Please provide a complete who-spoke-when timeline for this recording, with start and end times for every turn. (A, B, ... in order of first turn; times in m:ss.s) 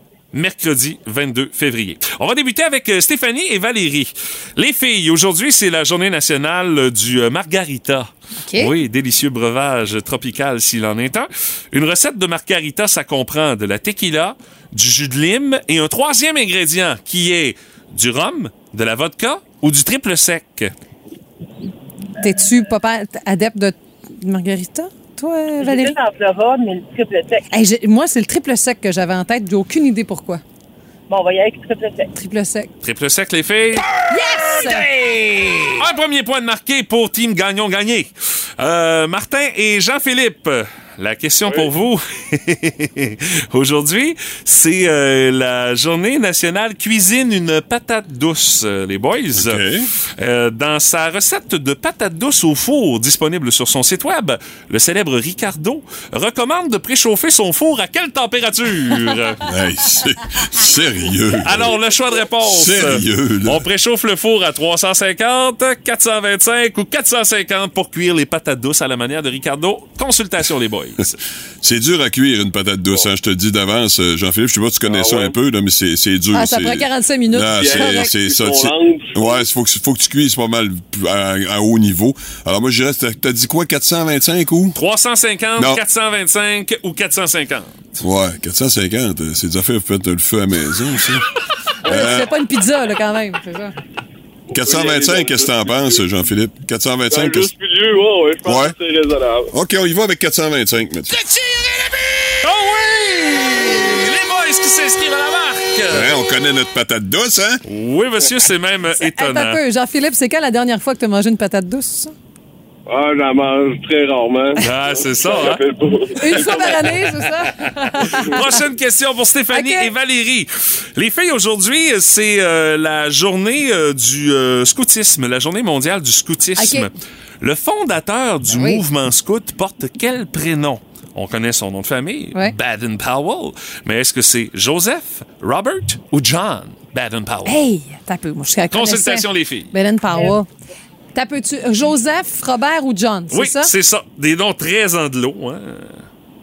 0:00.3-0:20.7 A
0:08.4-0:08.7 B
0:22.2-0:25.9 B
0:25.6-0:27.5 C
0:27.5-0:30.4 B
0:31.1-0:32.1 C
0:32.1-0:32.7 B
0:32.8-0:34.7 A
0:34.1-0:34.9 B
0:35.7-0:59.4 A
0:49.4-0:49.9 D
0:59.4-1:01.7 D
1:01.4-1:11.2 A
1:02.4-1:03.6 D
1:11.6-1:24.8 D
1:14.9-1:15.3 E
1:16.3-1:18.1 B
1:17.5-1:19.4 E
1:24.7-1:28.0 A
1:25.6-1:25.8 D
1:28.0-1:31.3 D
1:31.8-1:33.7 B
1:31.8-1:32.3 D
1:34.5-1:37.5 D
1:34.5-1:36.0 E
1:37.1-1:39.5 E
1:38.4-1:38.7 D
1:39.5-1:41.1 D
1:41.1-1:46.1 A
1:45.9-1:47.6 D
1:47.6-1:49.6 A
1:49.0-1:52.1 B
1:52.9-1:56.9 E
1:54.6-1:55.6 A
1:56.2-1:58.6 B
1:56.3-1:56.9 A
1:57.9-2:17.6 A
1:59.5-1:59.9 B
2:06.6-2:06.9 B
2:08.5-2:08.8 B
2:17.4-2:20.5 B
2:18.7-2:19.7 A
2:21.1-2:23.7 B
2:23.3-2:26.0 A